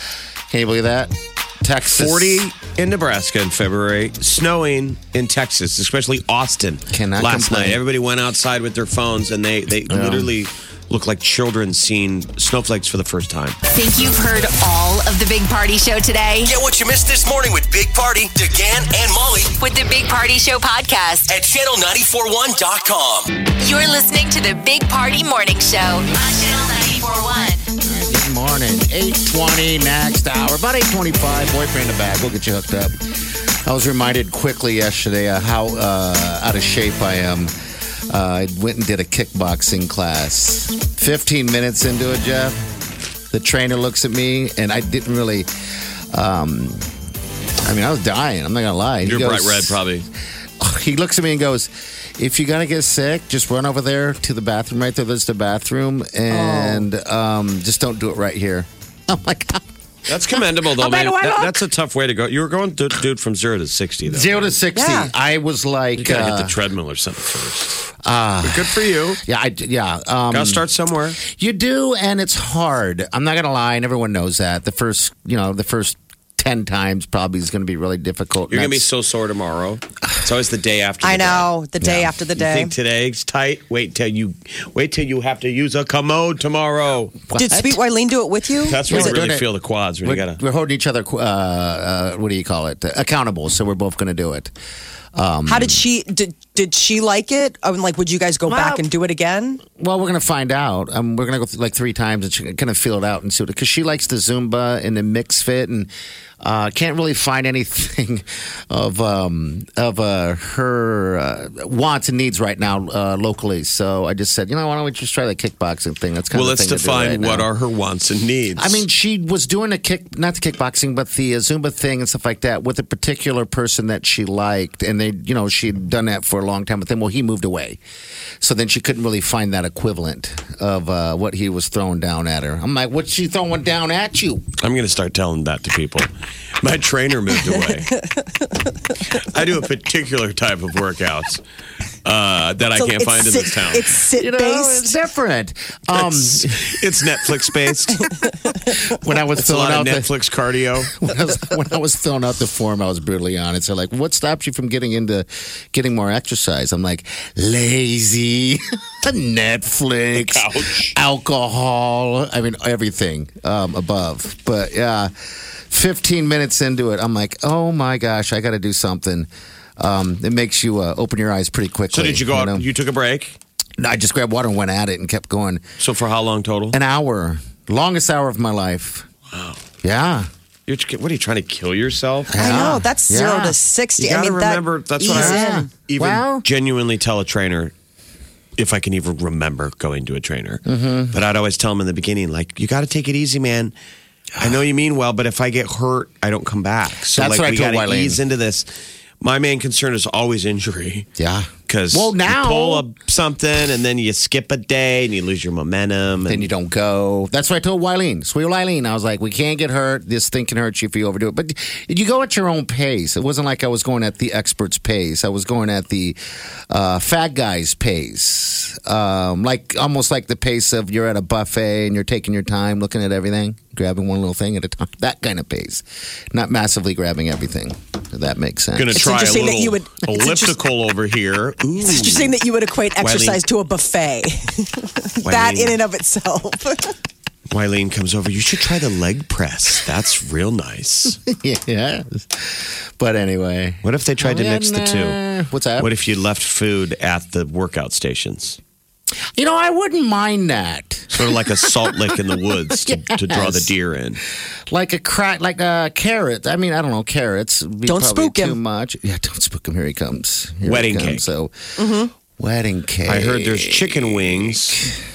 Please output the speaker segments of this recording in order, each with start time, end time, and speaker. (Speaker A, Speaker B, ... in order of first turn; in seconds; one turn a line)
Speaker A: 0.5-2.5
Speaker B: 1.9-13.6
Speaker A: 6.9-7.8
Speaker A: 9.9-10.3
Speaker C: 13.7-16.5
Speaker D: 16.4-19.5
Speaker C: 19.6-21.3
Speaker D: 21.3-23.3
Speaker C: 23.6-27.6
Speaker A: 27.8-33.0
Speaker A: 33.6-37.5
Speaker A: 38.1-42.6
Speaker A: 43.3-45.5
Speaker A: 46.1-46.9
Speaker A: 47.6-49.8
Speaker B: 49.0-50.0
Speaker A: 50.6-59.6
Speaker E: 56.3-56.9
Speaker B: 60.1-64.5
Speaker E: 60.8-61.6
Speaker A: 64.0-66.5
Speaker E: 64.7-65.1
Speaker B: 66.0-67.8
Speaker A: 68.0-70.6
Speaker B: 68.4-69.2
Speaker B: 70.3-71.2
Speaker A: 71.2-78.8
Speaker B: 78.5-81.5
Speaker E: 81.0-82.7
Speaker A: 81.8-82.1
Speaker B: 82.3-87.2
Speaker A: 87.3-87.8
Speaker E: 87.3-89.1
Speaker B: 88.7-90.4
Speaker A: 88.8-89.5
Speaker A: 90.0-94.5
Speaker A: 95.1-95.8
Speaker E: 95.5-99.6
Speaker A: 98.5-98.8
Speaker A: 99.8-105.9
Speaker A: 106.4-117.5
Speaker B: 116.3-118.8
Speaker A: 118.6-127.8
Speaker A: 128.4-134.4
Speaker B: 134.6-136.1
Speaker B: 136.6-137.9
Speaker B: 139.1-141.4
Speaker B: 142.0-144.0
Speaker E: 142.8-144.9
Speaker A: 144.2-146.7
Speaker B: 146.0-148.1
Speaker A: 148.8-150.1
Speaker B: 149.4-150.9
Speaker A: 150.9-165.1
Speaker B: 160.2-160.9
Speaker A: 165.7-172.6
Speaker B: 171.9-173.4
Speaker A: 173.8-175.6
Speaker B: 175.8-176.8
Speaker A: 176.7-179.1
Speaker B: 179.3-179.6
Speaker A: 179.8-180.3
Speaker B: 180.7-182.3
Speaker A: 182.3-183.5
Speaker E: 182.4-185.7
Speaker B: 184.0-187.7
Speaker A: 185.1-186.4
Speaker B: 188.6-193.7
Speaker A: 190.7-191.2
Speaker B: 194.4-198.7
Speaker A: 197.1-198.2
Speaker B: 199.2-201.1
Speaker A: 201.2-202.8
Speaker B: 201.7-206.5
Speaker A: 206.2-216.2
Speaker A: 216.7-229.0
Speaker B: 228.8-232.3
Speaker E: 228.9-230.5
Speaker E: 231.8-236.9
Speaker B: 233.0-233.4
Speaker B: 235.2-235.8
Speaker B: 237.5-241.2
Speaker A: 241.2-245.9
Speaker B: 243.8-245.2
Speaker B: 245.8-248.6
Speaker A: 249.4-253.7
Speaker B: 251.1-254.2
Speaker A: 254.7-261.5
Speaker E: 257.9-258.6
Speaker B: 260.6-261.2
Speaker E: 261.8-262.1
Speaker A: 262.4-264.9
Speaker B: 263.1-264.8